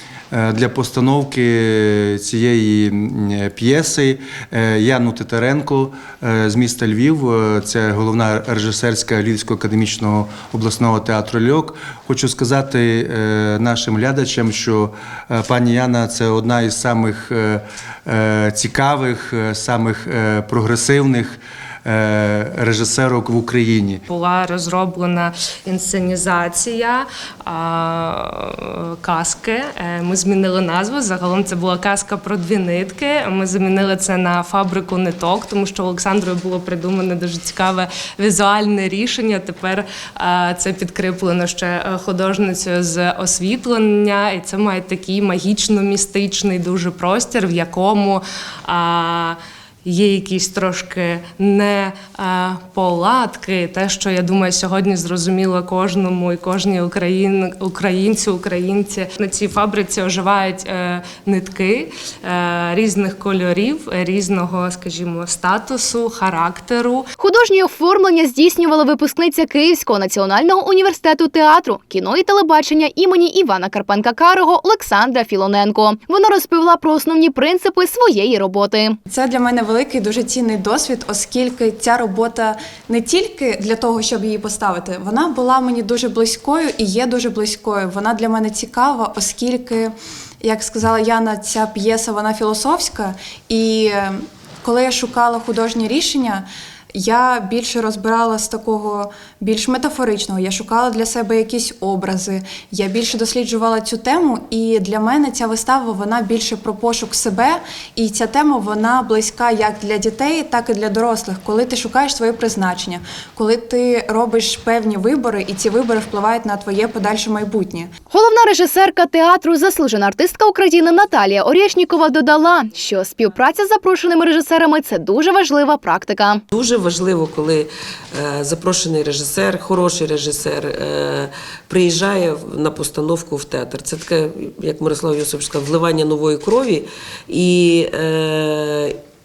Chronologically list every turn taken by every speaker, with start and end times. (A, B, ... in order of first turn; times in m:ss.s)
0:00.3-0:24.0 A
0:24.1-1:07.1 B
1:07.2-1:19.0 C
1:19.1-1:57.9 D
1:58.1-2:06.4 C
2:06.5-2:19.0 E